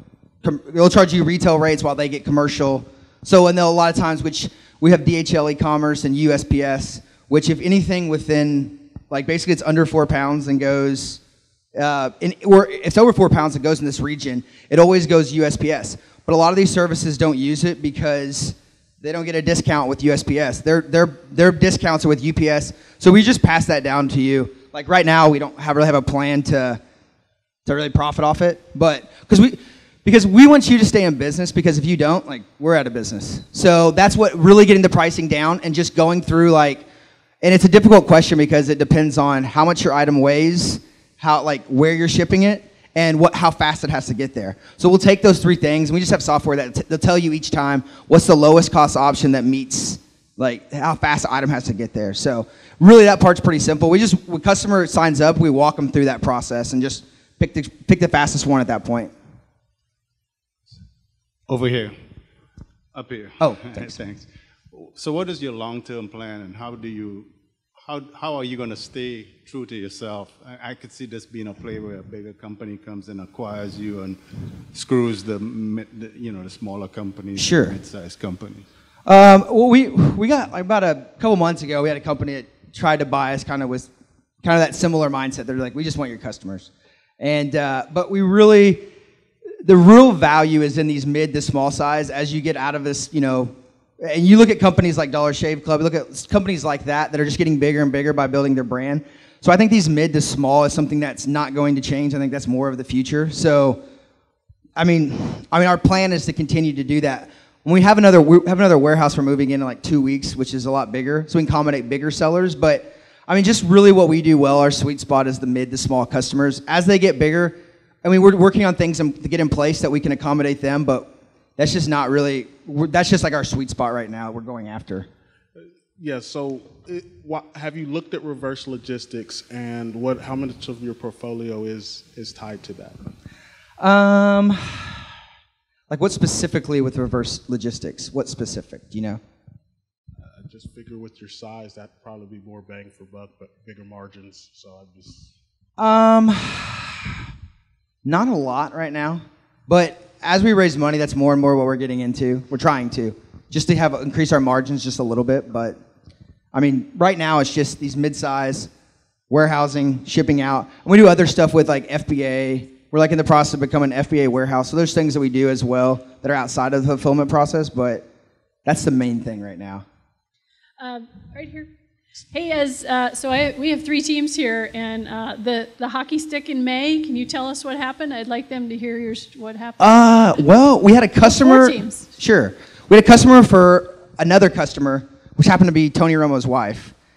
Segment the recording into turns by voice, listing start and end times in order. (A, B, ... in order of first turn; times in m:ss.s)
0:00.4-0:11.2 A
0:11.8-0:26.8 A
0:27.6-0:36.8 A
0:37.4-0:59.1 A
1:01.5-1:02.0 B
1:02.9-1:07.3 B
1:03.4-1:03.9 A
1:07.8-1:14.2 B
1:14.7-1:18.6 B
1:17.4-1:17.8 A
1:19.0-1:23.9 A
1:24.4-1:28.9 A
1:29.6-1:43.8 A
1:44.8-2:05.1 A
2:06.0-2:13.0 C
2:13.8-2:15.0 A
2:15.9-2:19.2 A
2:20.2-2:25.3 C
2:25.8-2:27.1 A
2:28.0-2:35.8 A
2:36.5-2:38.7 A
2:39.3-2:48.0 A
2:48.6-2:49.8 A
2:50.8-2:51.7 D
2:52.3-3:02.1 D
2:59.8-3:06.9 A